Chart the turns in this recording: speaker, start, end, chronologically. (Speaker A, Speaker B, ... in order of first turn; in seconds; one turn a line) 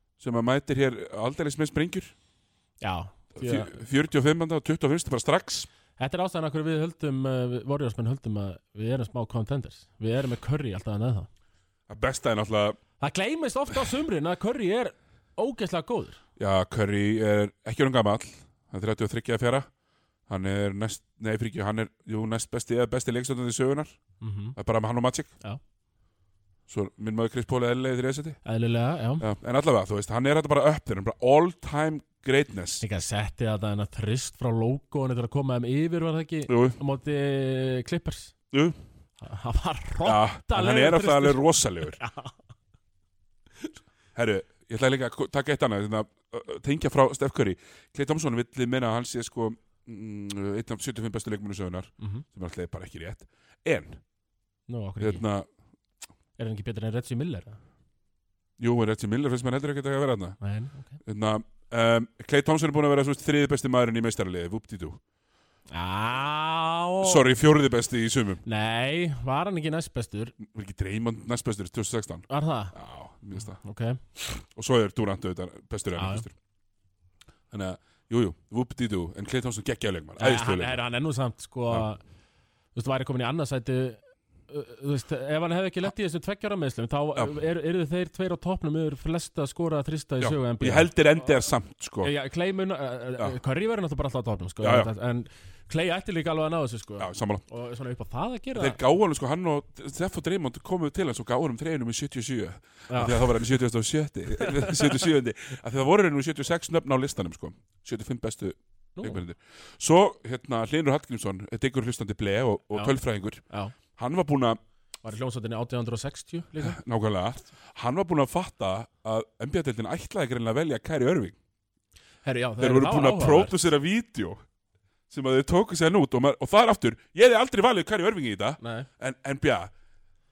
Speaker A: 0.2-2.1
Speaker B: 2.8-3.7
Speaker A: 3.4-5.7
Speaker B: 6.0-11.3
Speaker A: 11.9-12.8
Speaker B: 13.0-16.2
Speaker A: 16.4-19.7
Speaker A: 20.3-24.0
Speaker B: 24.2-24.6
Speaker A: 24.6-25.3
Speaker A: 26.7-28.4
Speaker B: 28.4-29.3
Speaker A: 29.2-32.8
Speaker B: 32.8-38.3
Speaker A: 36.5-36.8
Speaker B: 39.2-42.4
Speaker A: 40.0-42.0
Speaker A: 44.1-54.0
Speaker B: 52.0-52.2
Speaker B: 54.7-55.2
Speaker A: 55.0-55.5
Speaker B: 56.4-57.6
Speaker A: 58.6-60.4
Speaker B: 60.4-61.0
Speaker A: 61.0-65.0
Speaker B: 65.7-67.3
Speaker A: 67.0-68.4
Speaker B: 68.5-70.3
Speaker A: 70.4-73.6
Speaker B: 72.3-72.8
Speaker B: 73.4-74.0
Speaker A: 74.2-76.3
Speaker B: 76.0-76.2
Speaker A: 77.5-80.8
Speaker B: 80.2-82.0
Speaker B: 82.8-90.9
Speaker A: 90.2-92.1
Speaker B: 92.0-98.8
Speaker A: 94.6-94.9
Speaker A: 97.0-97.4
Speaker A: 98.5-113.4
Speaker B: 102.9-103.3
Speaker B: 113.5-113.8
Speaker A: 114.0-114.6
Speaker B: 115.0-116.8
Speaker A: 116.6-121.4
Speaker B: 122.2-123.5
Speaker A: 122.6-124.4
Speaker A: 125.1-129.7
Speaker B: 128.6-128.9